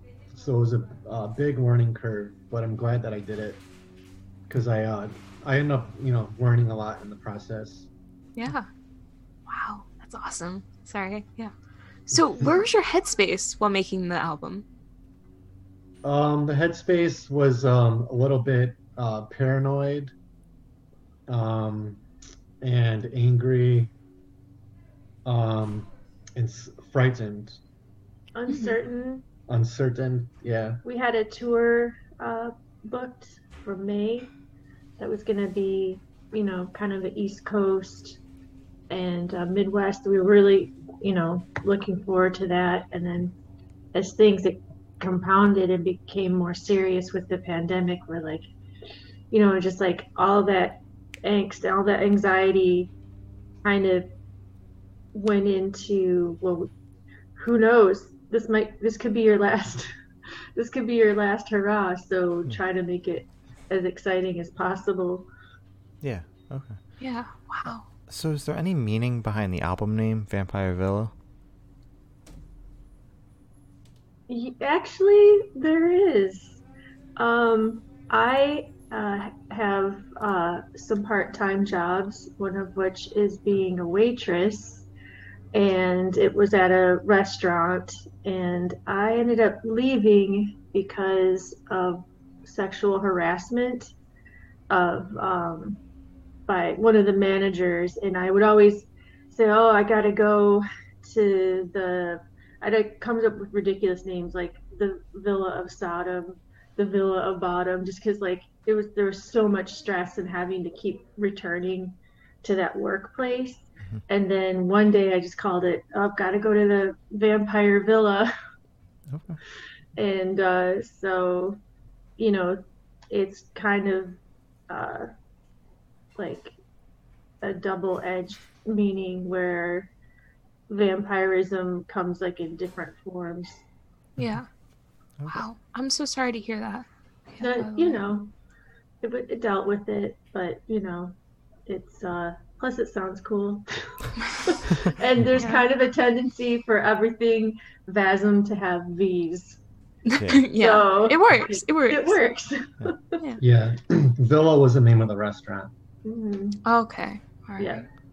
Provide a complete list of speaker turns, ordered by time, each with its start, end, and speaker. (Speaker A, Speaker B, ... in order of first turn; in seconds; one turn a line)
Speaker A: 0.3-3.6
Speaker A: 4.5-7.9
Speaker B: 8.4-8.7
Speaker B: 9.5-11.5
Speaker B: 12.1-14.7
Speaker A: 16.0-20.1
Speaker A: 21.3-22.0
Speaker A: 22.6-23.9
Speaker A: 25.2-27.6
Speaker C: 28.4-29.3
Speaker B: 28.5-28.8
Speaker A: 29.5-30.8
Speaker C: 30.8-34.3
Speaker C: 35.0-38.2
Speaker C: 38.9-43.4
Speaker C: 43.9-48.5
Speaker C: 49.3-52.9
Speaker C: 53.6-54.1
Speaker C: 55.1-56.7
Speaker C: 57.4-59.9
Speaker C: 60.6-65.3
Speaker D: 66.0-66.8
Speaker B: 67.0-67.9
Speaker D: 68.1-71.2
Speaker C: 74.3-76.6
Speaker C: 77.2-84.9
Speaker C: 85.5-93.9
Speaker C: 94.7-95.8
Speaker C: 96.5-118.3
Speaker D: 119.1-119.4
Speaker C: 120.0-121.6
Speaker C: 122.2-125.1
Speaker C: 126.2-126.6
Speaker C: 127.4-129.9
Speaker C: 130.7-133.6
Speaker B: 134.2-134.5
Speaker B: 135.3-138.0
Speaker C: 137.4-138.3
Speaker C: 139.0-141.2
Speaker C: 141.7-149.6
Speaker B: 145.4-145.6
Speaker B: 150.2-152.2
Speaker D: 150.2-150.5
Speaker C: 150.5-153.2
Speaker A: 153.4-155.7
Speaker C: 156.0-156.6
Speaker B: 156.7-157.8
Speaker C: 157.6-157.9